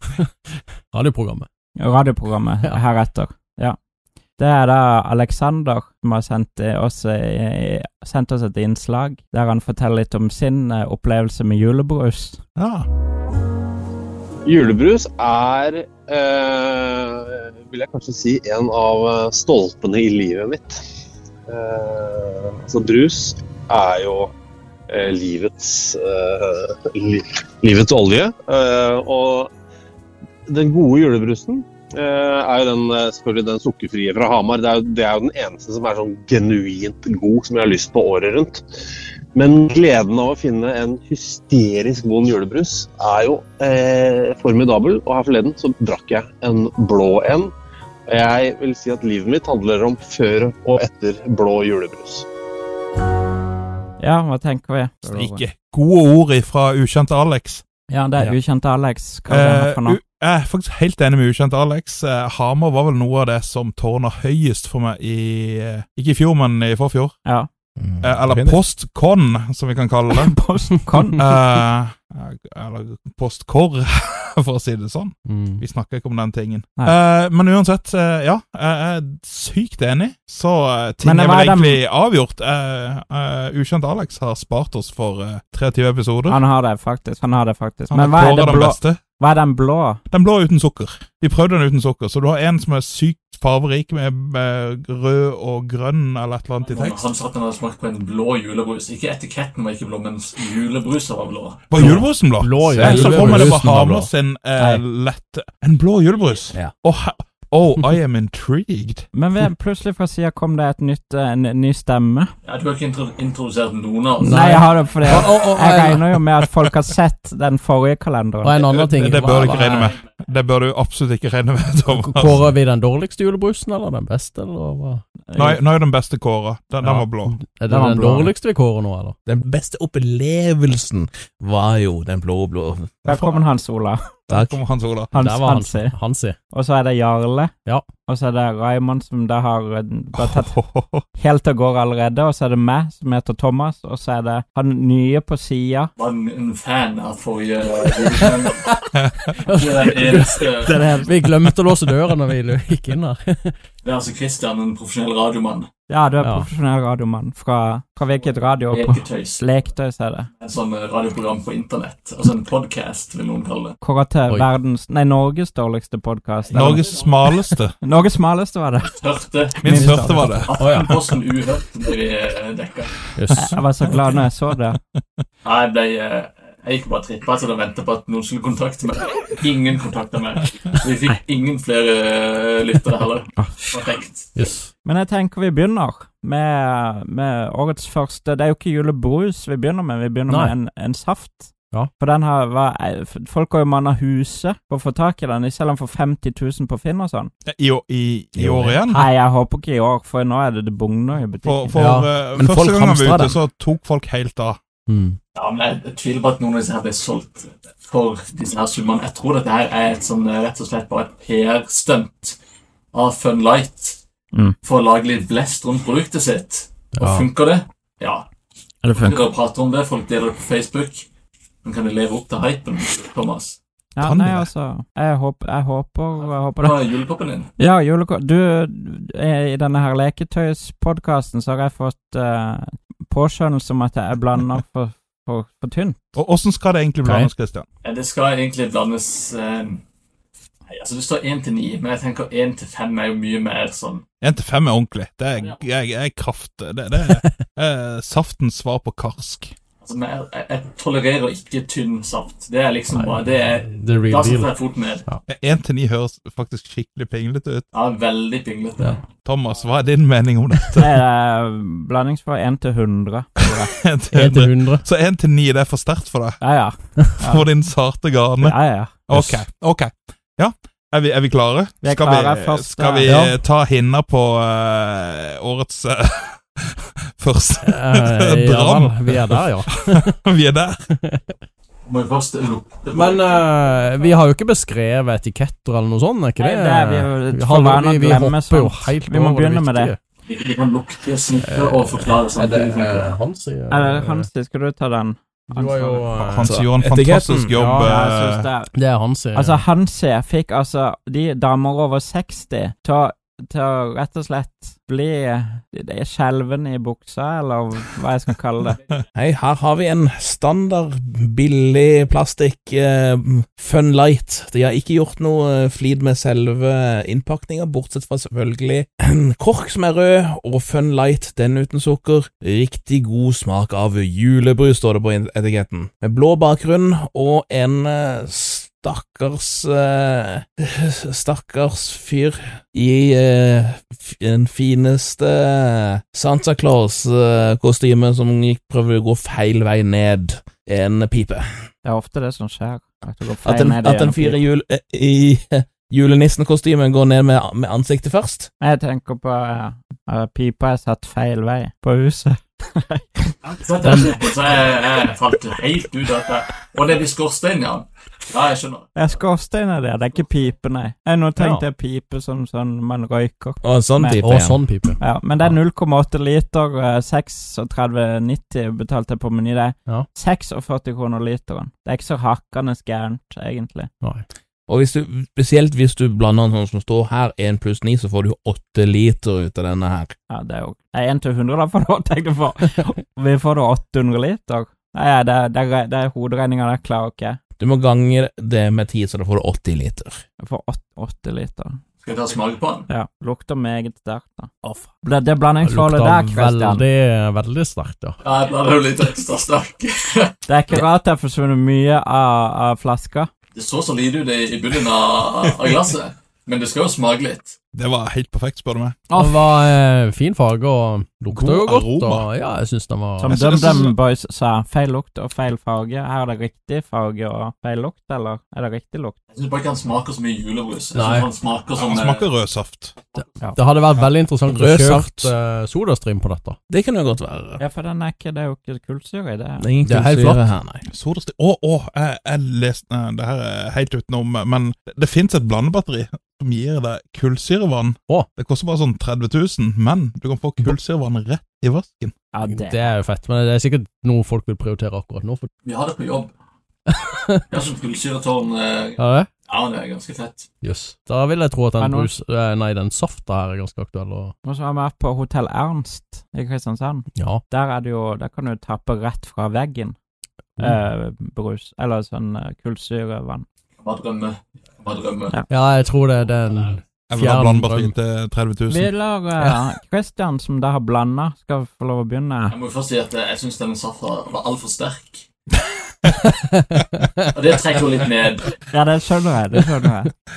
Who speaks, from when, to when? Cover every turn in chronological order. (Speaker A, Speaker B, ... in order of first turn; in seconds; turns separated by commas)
Speaker A: 0.9-1.5, Speaker B: 1.8-3.8, Speaker B: 4.4-12.4, Speaker C: 12.6-12.9, Speaker D: 14.4-20.8, Speaker D: 21.5-24.3, Speaker D: 24.9-29.5, Speaker D: 30.5-38.6, Speaker D: 39.3-47.5, Speaker D: 48.1-52.3, Speaker B: 54.0-55.5, Speaker C: 55.1-57.6, Speaker B: 57.9-60.0, Speaker C: 59.3-67.2, Speaker E: 67.8-68.6, Speaker C: 68.0-70.5, Speaker B: 70.1-71.3, Speaker C: 71.0-86.4, Speaker A: 75.3-75.6, Speaker B: 81.0-81.8, Speaker B: 86.3-90.0, Speaker C: 87.9-89.0, Speaker C: 90.1-97.0, Speaker F: 96.7-102.0, Speaker C: 101.7-109.1, Speaker A: 101.8-104.1, Speaker E: 102.8-103.8, Speaker B: 109.1-112.3, Speaker F: 112.4-114.6, Speaker A: 114.2-116.0, Speaker B: 114.2-118.6, Speaker A: 118.4-119.8, Speaker C: 118.7-122.5, Speaker A: 121.9-125.0, Speaker B: 125.3-125.6, Speaker C: 125.3-127.4, Speaker A: 126.8-129.2, Speaker B: 127.7-128.3, Speaker E: 129.3-132.9, Speaker C: 133.0-133.4, Speaker B: 133.1-134.0, Speaker C: 134.3-135.2, Speaker B: 135.1-135.9, Speaker A: 135.2-136.4, Speaker B: 136.5-137.5, Speaker B: 138.1-140.5, Speaker C: 140.2-141.1, Speaker B: 141.1-145.9, Speaker F: 146.0-148.8, Speaker C: 148.9-149.3, Speaker F: 149.4-151.1, Speaker A: 149.5-153.6, Speaker B: 150.7-151.1, Speaker F: 153.8-155.7, Speaker B: 155.9-160.3, Speaker A: 156.2-156.5, Speaker F: 158.7-159.4, Speaker F: 160.4-163.8, Speaker B: 163.8-166.9, Speaker F: 166.5-167.1, Speaker C: 166.5-167.8, Speaker B: 167.8-168.9, Speaker F: 168.9-169.9, Speaker C: 169.6-170.5, Speaker B: 169.6-170.3, Speaker A: 169.8-171.1, Speaker F: 170.5-173.1, Speaker A: 173.2-173.5, Speaker B: 173.4-174.8, Speaker C: 173.4-173.9, Speaker F: 175.4-184.3, Speaker A: 184.3-184.7, Speaker B: 184.8-197.3, Speaker A: 190.3-190.5, Speaker C: 197.4-199.1, Speaker A: 198.4-198.7, Speaker B: 198.9-201.8, Speaker C: 201.4-204.6, Speaker A: 201.8-202.1, Speaker E: 202.4-203.1, Speaker A: 202.9-203.3, Speaker A: 204.9-205.2, Speaker F: 205.3-212.4, Speaker F: 212.9-214.0, Speaker F: 214.6-218.3, Speaker A: 216.9-217.3, Speaker B: 218.8-219.2, Speaker F: 218.9-221.1, Speaker F: 221.6-223.6, Speaker B: 224.0-226.8, Speaker C: 224.0-224.5, Speaker F: 226.6-227.5, Speaker B: 227.6-236.0, Speaker C: 236.1-237.7, Speaker F: 237.8-239.8, Speaker F: 240.7-244.0, Speaker C: 244.2-249.6, Speaker A: 247.1-247.4, Speaker F: 249.8-255.0, Speaker A: 252.9-254.5, Speaker C: 255.3-257.7, Speaker F: 257.7-259.0, Speaker C: 259.2-261.0, Speaker B: 260.8-263.7, Speaker C: 263.4-266.4, Speaker A: 264.1-264.9, Speaker B: 266.4-267.5, Speaker C: 267.3-280.9, Speaker B: 268.4-269.0, Speaker B: 271.8-273.2, Speaker A: 273.1-273.4, Speaker A: 277.6-280.2, Speaker A: 280.9-281.4, Speaker F: 281.9-283.2, Speaker A: 282.9-290.0, Speaker B: 286.4-289.9, Speaker F: 290.3-293.1, Speaker A: 291.4-294.2, Speaker B: 293.7-296.3, Speaker A: 295.5-296.5, Speaker C: 296.3-298.5, Speaker E: 296.4-297.5, Speaker B: 297.6-298.7, Speaker A: 298.7-299.6, Speaker B: 299.3-308.8, Speaker E: 309.1-341.5, Speaker B: 341.8-344.4, Speaker E: 343.4-348.5, Speaker B: 348.6-353.4, Speaker F: 353.4-358.9, Speaker B: 359.0-364.3, Speaker A: 361.4-361.6, Speaker E: 363.6-364.6, Speaker A: 364.2-365.0, Speaker B: 365.0-373.9, Speaker E: 374.7-380.1, Speaker B: 380.3-387.4, Speaker E: 387.6-390.2, Speaker B: 390.4-391.8, Speaker F: 392.0-392.9, Speaker B: 392.9-396.9, Speaker A: 395.6-398.2, Speaker F: 398.2-400.3, Speaker B: 400.5-403.3, Speaker F: 403.5-407.6, Speaker C: 407.7-409.1, Speaker B: 409.1-409.4, Speaker A: 409.1-413.4, Speaker C: 411.3-412.3, Speaker B: 413.2-419.2, Speaker C: 413.3-414.0, Speaker F: 419.3-422.3, Speaker A: 420.9-421.3, Speaker C: 421.7-423.1, Speaker A: 423.5-426.6, Speaker E: 424.5-425.3, Speaker E: 426.7-427.6, Speaker B: 427.6-429.6, Speaker E: 429.6-430.8, Speaker A: 429.9-430.4, Speaker C: 430.9-442.3, Speaker B: 442.3-442.9, Speaker A: 442.4-445.5, Speaker F: 445.6-446.3, Speaker A: 446.9-447.4, Speaker F: 447.5-450.5, Speaker A: 449.0-449.3, Speaker A: 450.6-454.3, Speaker B: 451.8-452.1, Speaker B: 454.4-460.0, Speaker A: 457.2-457.4, Speaker B: 460.6-463.5, Speaker F: 463.8-465.4, Speaker A: 465.5-467.9, Speaker C: 467.1-468.9, Speaker B: 468.7-472.6, Speaker F: 472.5-475.2, Speaker A: 476.2-477.3, Speaker F: 477.3-478.6, Speaker B: 478.7-480.1